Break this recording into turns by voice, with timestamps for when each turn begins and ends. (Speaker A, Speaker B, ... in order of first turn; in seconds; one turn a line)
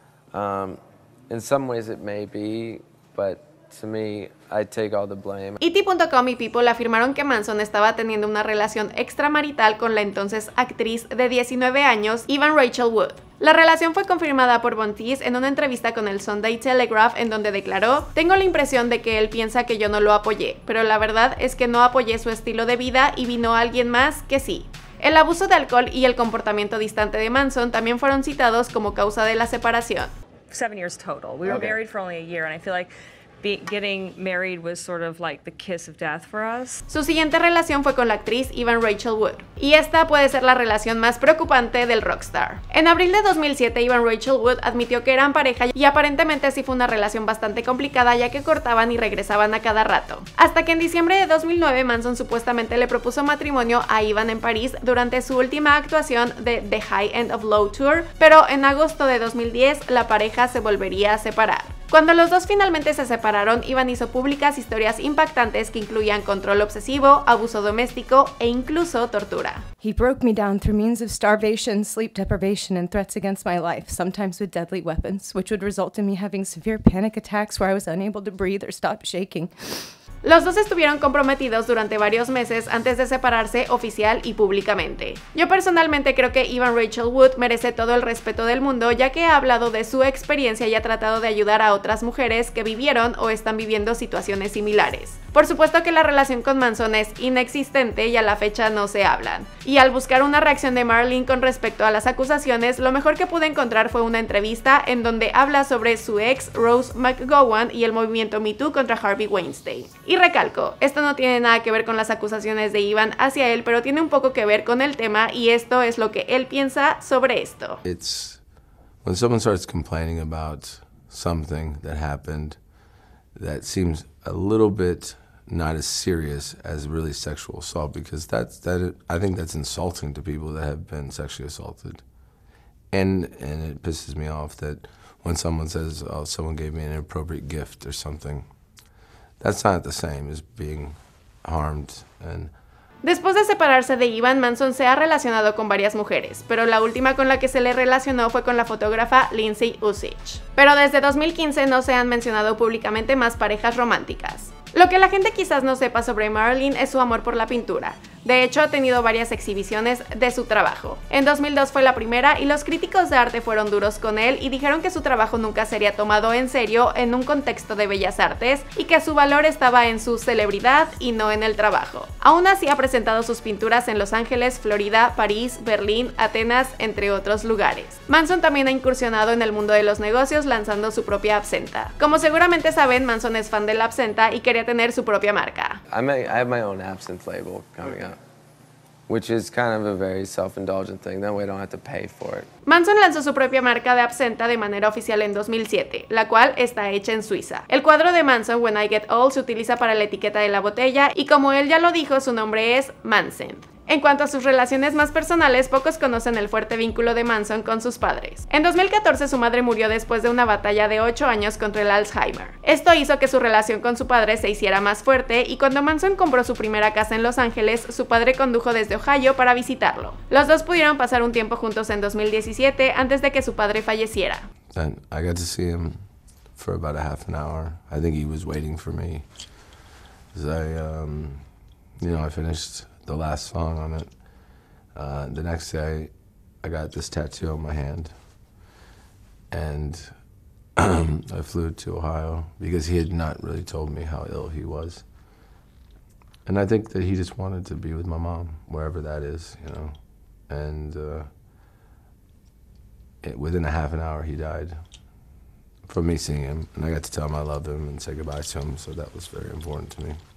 Speaker A: 0.3-5.6
Speaker B: 5.6-30.1
Speaker C: 30.5-36.8
Speaker B: 36.9-69.6
Speaker D: 69.8-79.9
Speaker B: 80.2-117.8
Speaker E: 117.8-118.4
Speaker E: 119.0-122.6
Speaker E: 123.3-132.0
Speaker E: 132.9-138.4
Speaker E: 139.4-142.5
Speaker B: 143.0-185.8
Speaker A: 185.9-188.2
Speaker A: 189.1-192.5
Speaker B: 192.7-224.5
Speaker E: 224.7-226.0
Speaker E: 226.6-229.3
Speaker E: 230.3-231.5
Speaker E: 232.0-234.1
Speaker E: 234.9-236.1
Speaker E: 236.6-238.2
Speaker E: 239.5-240.2
Speaker E: 240.8-245.1
Speaker E: 246.5-251.3
Speaker E: 253.2-254.8
Speaker E: 255.9-260.2